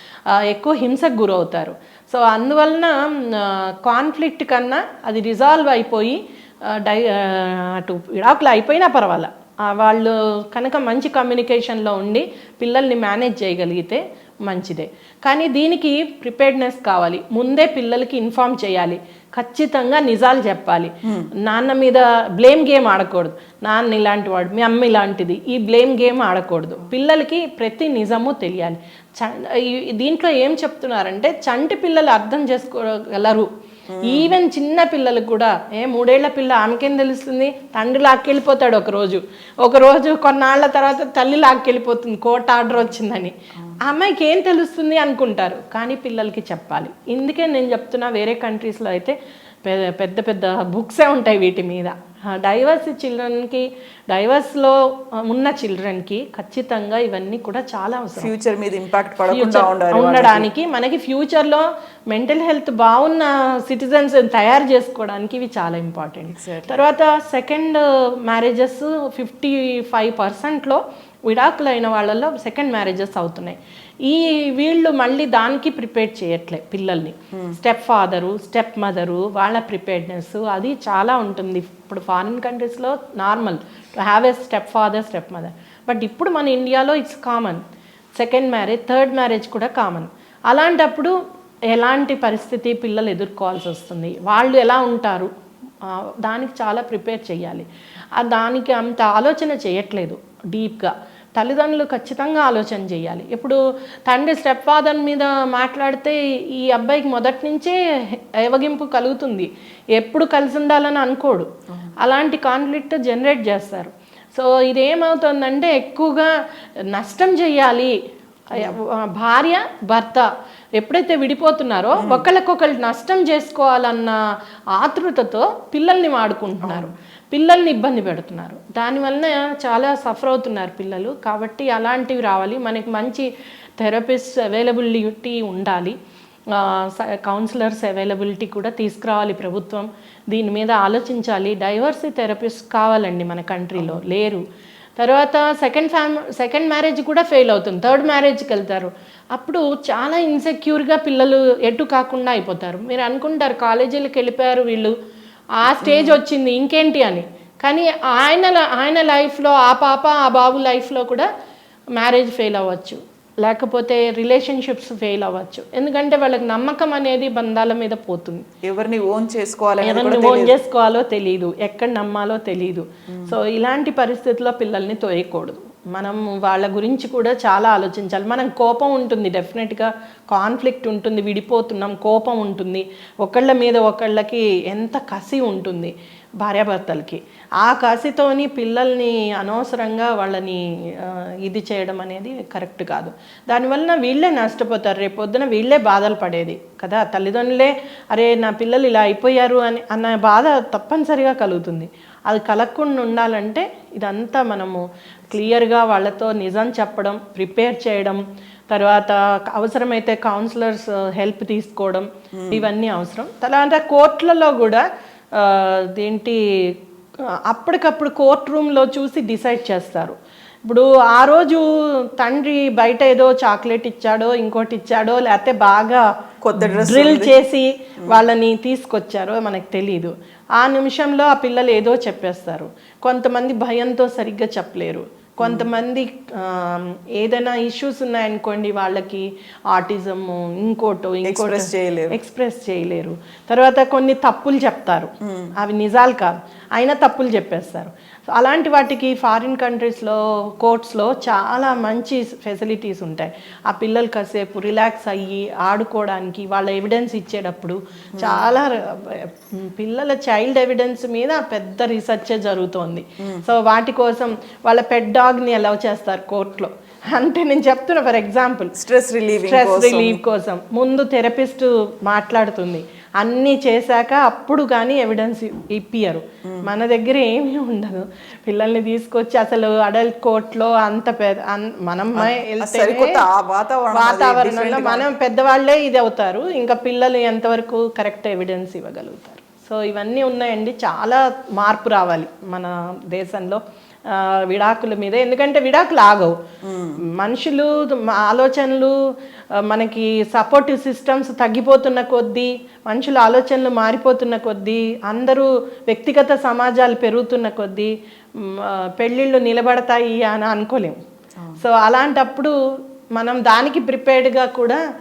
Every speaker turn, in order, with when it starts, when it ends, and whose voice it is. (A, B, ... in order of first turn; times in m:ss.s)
0:00.3-0:33.5 A
0:33.9-0:34.4 B
0:34.0-0:58.3 A
0:58.2-1:00.5 B
0:59.3-1:27.6 A
1:06.3-1:06.8 B
1:28.2-1:31.1 A
1:31.7-1:35.3 A
1:35.8-1:37.7 A
1:38.2-1:51.5 A
1:52.0-1:56.3 A
1:56.9-1:58.0 A
1:58.5-2:00.3 A
2:00.8-2:04.2 A
2:02.0-2:02.3 B
2:04.7-2:13.3 A
2:06.6-2:06.9 B
2:13.8-2:16.0 A
2:16.5-2:24.4 A
2:25.0-2:34.9 A
2:35.6-2:41.3 A
2:35.8-2:36.2 B
2:42.0-2:48.5 A
2:48.6-2:50.6 B
2:49.8-3:34.8 A
2:53.1-2:53.4 B
3:32.4-3:32.7 B
3:35.4-3:36.4 A
3:37.5-3:41.6 A
3:42.2-3:46.0 A
3:46.4-3:47.4 B
3:46.6-4:28.7 A
3:55.4-3:55.7 B
4:01.2-4:02.2 B
4:05.2-4:05.5 B
4:18.2-4:18.5 B
4:28.8-4:30.2 B
4:29.5-4:43.2 A
4:42.2-4:45.1 B
4:43.9-4:56.4 A
4:56.6-4:57.0 B
4:57.2-4:59.0 A
4:59.7-5:11.0 A
5:11.6-5:12.5 A
5:13.2-5:14.8 A